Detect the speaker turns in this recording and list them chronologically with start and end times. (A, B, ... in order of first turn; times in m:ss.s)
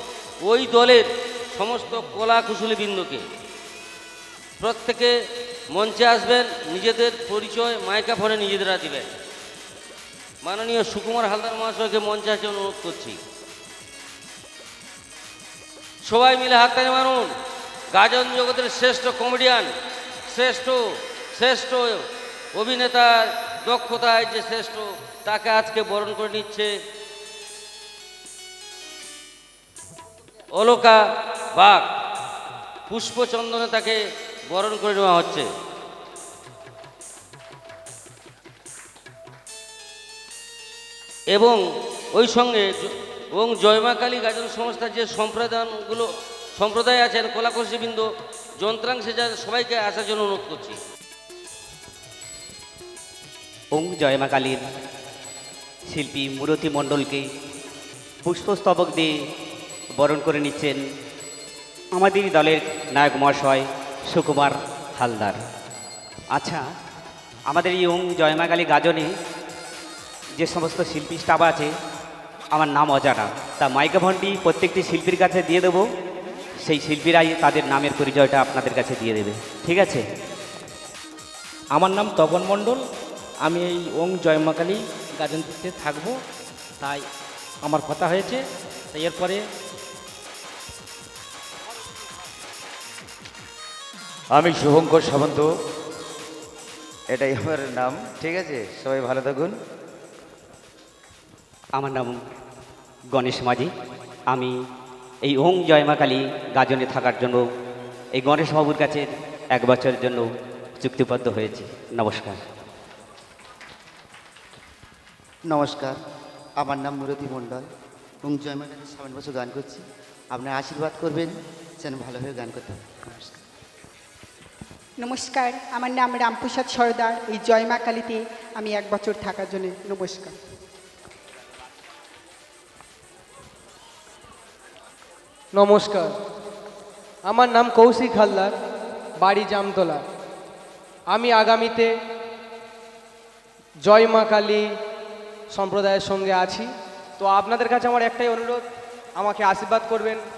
0:00.4-0:03.2 A
0:04.6-0:05.1 A
0:05.7-0:09.1 A
0:10.4-0:13.2 A
0:16.0-0:17.3 A
0:17.9-0:19.7 A
0:20.2-0:26.7 A
0:30.5-0:31.0 A
0:31.5-0:31.9 A
0:32.9-0:34.0 A
0:34.5-0:35.5 A
0:41.3-0:41.6 A
0:42.1-0:48.0 A
0:48.6-0:50.8 A
0:53.7-0:54.6 B
0:55.9-0:57.2 B
0:58.2-0:59.1 B
1:00.0-1:00.8 B
1:01.9-1:05.4 B
1:06.3-1:06.6 B
1:07.5-1:09.1 B
1:10.4-1:11.7 B
1:12.5-1:15.8 B
1:16.6-1:20.0 B
1:21.7-1:22.8 C
1:23.4-1:26.2 C
1:27.6-1:28.4 C
1:28.9-1:29.4 C
1:34.3-1:35.5 D
1:37.1-1:39.5 D
1:41.8-1:42.2 B
1:43.1-1:43.7 B
1:45.2-1:47.4 B
1:48.2-1:50.2 B
1:50.8-1:52.4 B
1:55.5-1:56.0 E
1:56.6-1:57.7 E
1:58.2-2:03.4 E
2:05.0-2:10.4 F
2:15.5-2:16.1 G
2:17.3-2:18.5 G
2:19.2-2:20.0 G
2:21.1-2:21.9 G
2:23.8-2:24.6 G
2:25.5-2:26.7 G
2:27.2-2:28.6 G
2:29.2-2:30.2 G